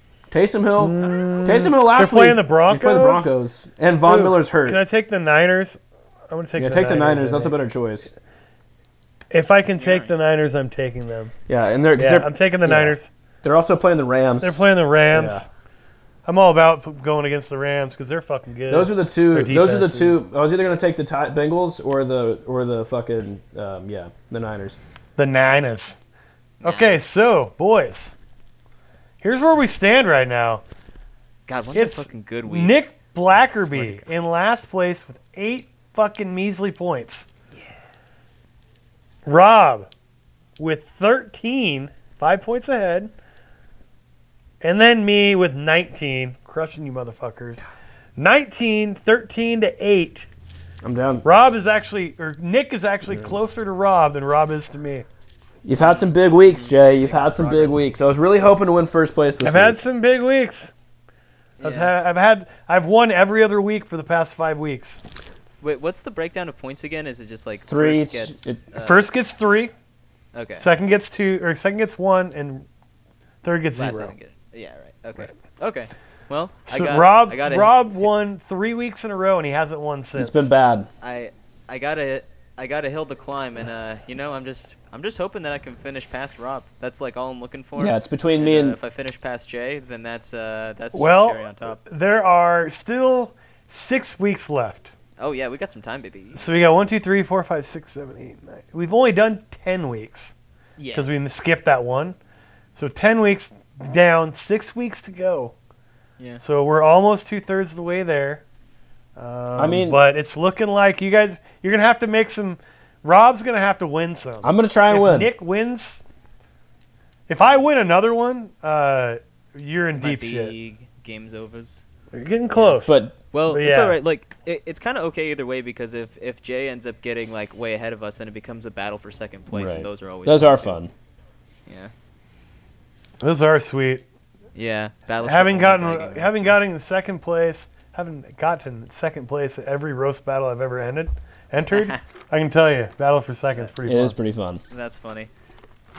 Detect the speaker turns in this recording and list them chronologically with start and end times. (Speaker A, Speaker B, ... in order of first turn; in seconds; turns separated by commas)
Speaker A: 0.3-4.8, Speaker B: 0.8-3.3, Speaker B: 4.0-7.6, Speaker A: 6.6-8.1, Speaker B: 9.3-11.3, Speaker C: 9.8-10.1, Speaker A: 11.5-15.5, Speaker B: 12.0-13.1, Speaker B: 14.4-15.5, Speaker B: 16.3-20.2, Speaker A: 18.7-24.8, Speaker B: 25.2-26.0, Speaker C: 26.6-27.0, Speaker B: 26.6-28.1, Speaker B: 29.2-30.6, Speaker C: 31.5-34.1, Speaker B: 31.7-37.3, Speaker B: 39.3-39.9, Speaker B: 40.6-43.1, Speaker B: 44.6-47.6, Speaker B: 48.2-50.3, Speaker A: 50.8-51.2, Speaker B: 51.2-55.1, Speaker A: 53.1-53.3, Speaker A: 55.6-59.8, Speaker C: 55.8-57.8, Speaker B: 59.4-60.7, Speaker C: 61.6-61.9, Speaker B: 61.6-65.0, Speaker C: 65.6-69.1, Speaker A: 67.7-68.6, Speaker B: 68.8-69.7, Speaker C: 70.3-70.7, Speaker B: 70.6-72.7, Speaker B: 73.4-74.1, Speaker C: 73.7-77.8, Speaker B: 76.7-80.5, Speaker A: 80.2-80.9, Speaker C: 81.0-91.8, Speaker A: 87.8-88.8, Speaker B: 90.9-94.9, Speaker C: 95.2-96.5, Speaker B: 96.3-100.3, Speaker C: 100.8-101.1, Speaker B: 100.9-102.2, Speaker B: 102.8-105.5, Speaker B: 106.4-108.4, Speaker B: 109.2-116.0, Speaker A: 109.6-110.0, Speaker A: 114.4-115.3, Speaker B: 117.3-120.5, Speaker C: 120.0-121.8, Speaker B: 122.1-124.0, Speaker A: 122.8-123.2, Speaker C: 123.3-130.8, Speaker A: 129.5-130.9, Speaker C: 131.7-131.9, Speaker B: 133.2-134.1, Speaker C: 134.6-136.6, Speaker B: 135.2-144.2, Speaker C: 141.7-142.0, Speaker A: 143.8-144.6, Speaker C: 144.7-145.3